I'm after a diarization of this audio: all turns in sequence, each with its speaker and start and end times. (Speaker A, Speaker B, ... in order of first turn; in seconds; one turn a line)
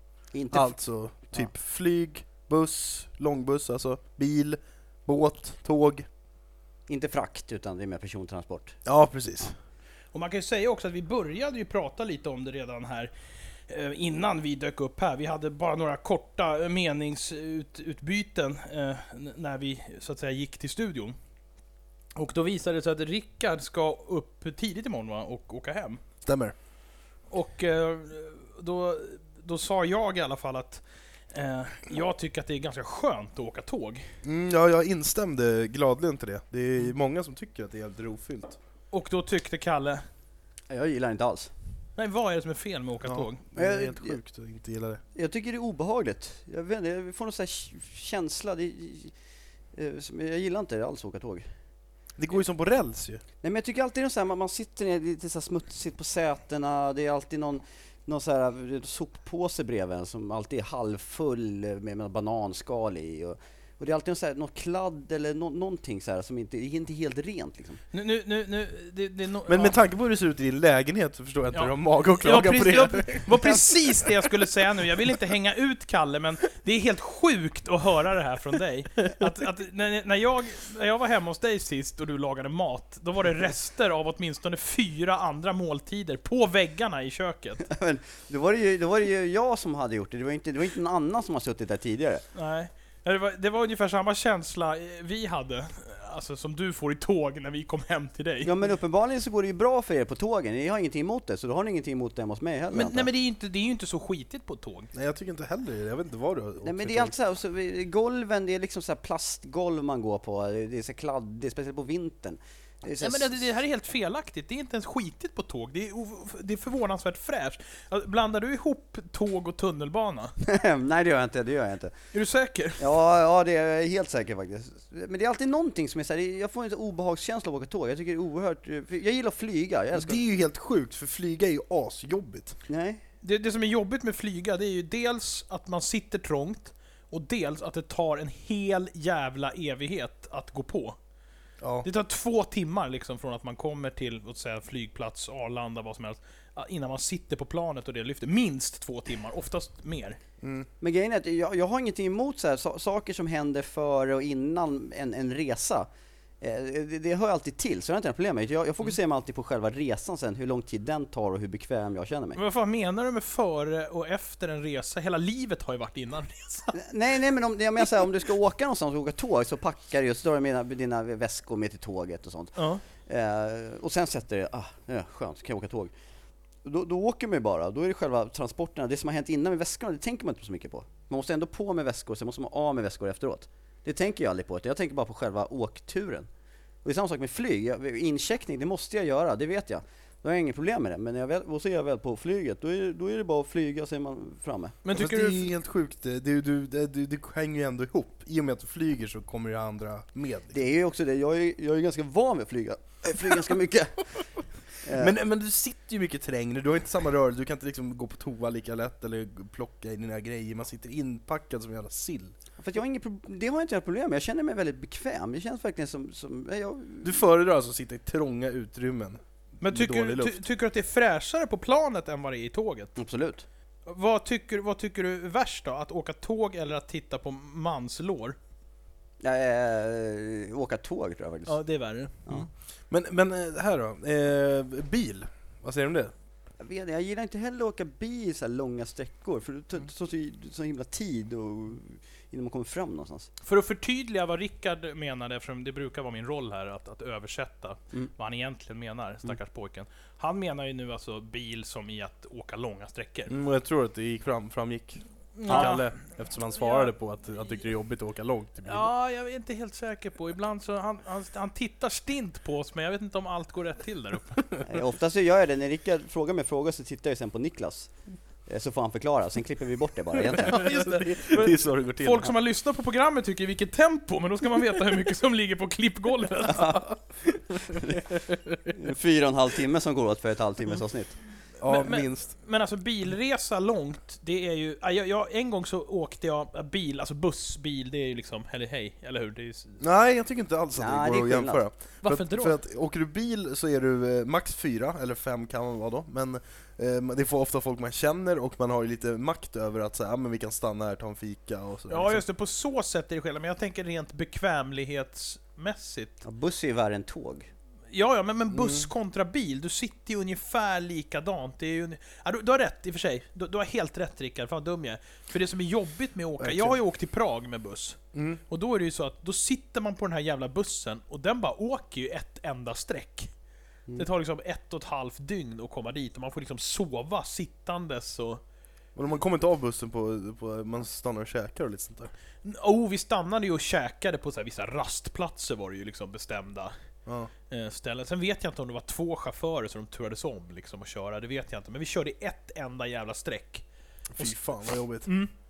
Speaker A: 0.3-0.8
Speaker B: 0.5-6.1
Speaker A: 6.9-8.8
Speaker B: 8.8-9.6
Speaker C: 10.1-13.1
Speaker C: 13.7-21.2
Speaker C: 22.1-26.0
Speaker B: 26.2-26.5
Speaker C: 27.3-30.8
Speaker C: 31.3-34.1
Speaker B: 34.2-38.6
Speaker C: 38.9-40.0
Speaker A: 40.7-41.5
Speaker C: 42.0-43.4
Speaker B: 43.0-45.0
Speaker A: 43.5-44.2
Speaker A: 45.1-49.1
Speaker A: 49.8-51.5
Speaker B: 52.2-53.2
Speaker A: 53.4-67.8
Speaker C: 67.9-69.8
Speaker B: 69.5-74.3
Speaker C: 71.5-87.6
Speaker A: 87.6-92.2
Speaker C: 92.3-98.5
Speaker A: 98.5-103.1
Speaker C: 102.7-104.9
Speaker B: 104.9-107.1
Speaker A: 106.6-113.4
Speaker C: 113.0-120.3
Speaker A: 120.4-122.0
Speaker C: 122.1-122.9
Speaker A: 122.8-130.2
Speaker B: 129.9-132.6
Speaker A: 132.7-133.0
Speaker C: 133.2-141.0
Speaker B: 141.6-141.9
Speaker C: 141.8-150.2
Speaker B: 150.4-150.7
Speaker A: 150.8-155.9
Speaker A: 156.4-162.4
Speaker C: 162.4-166.8
Speaker A: 166.7-175.9
Speaker C: 172.6-172.8
Speaker A: 176.6-186.3
Speaker A: 186.8-194.8
Speaker C: 194.8-195.4
Speaker B: 194.9-200.6
Speaker A: 200.5-204.2
Speaker A: 204.8-205.1
Speaker B: 204.9-212.3
Speaker A: 212.6-217.2
Speaker B: 217.0-220.4
Speaker C: 219.6-222.9
Speaker A: 223.0-223.5
Speaker C: 223.9-228.4
Speaker A: 229.2-231.6
Speaker C: 231.5-232.5
Speaker B: 232.9-236.1
Speaker A: 236.6-243.3
Speaker C: 243.4-253.3
Speaker B: 253.3-258.9
Speaker C: 255.4-255.9
Speaker C: 256.6-256.9
Speaker C: 258.7-264.4
Speaker A: 264.6-267.9
Speaker A: 268.5-270.6
Speaker C: 270.3-276.8
Speaker B: 270.4-272.3
Speaker B: 277.2-278.7
Speaker A: 278.7-281.1
Speaker B: 281.6-282.3
Speaker C: 281.6-289.8
Speaker B: 289.8-302.2
Speaker A: 290.8-291.6
Speaker C: 292.0-292.6
Speaker C: 301.9-306.2
Speaker A: 306.2-307.5
Speaker C: 307.9-323.3
Speaker B: 308.5-308.9
Speaker A: 316.4-316.8
Speaker B: 318.1-318.4
Speaker C: 324.0-328.4
Speaker B: 329.0-332.1
Speaker C: 332.4-336.7
Speaker B: 337.1-337.3
Speaker C: 337.5-343.6
Speaker B: 344.2-345.1
Speaker C: 344.2-345.3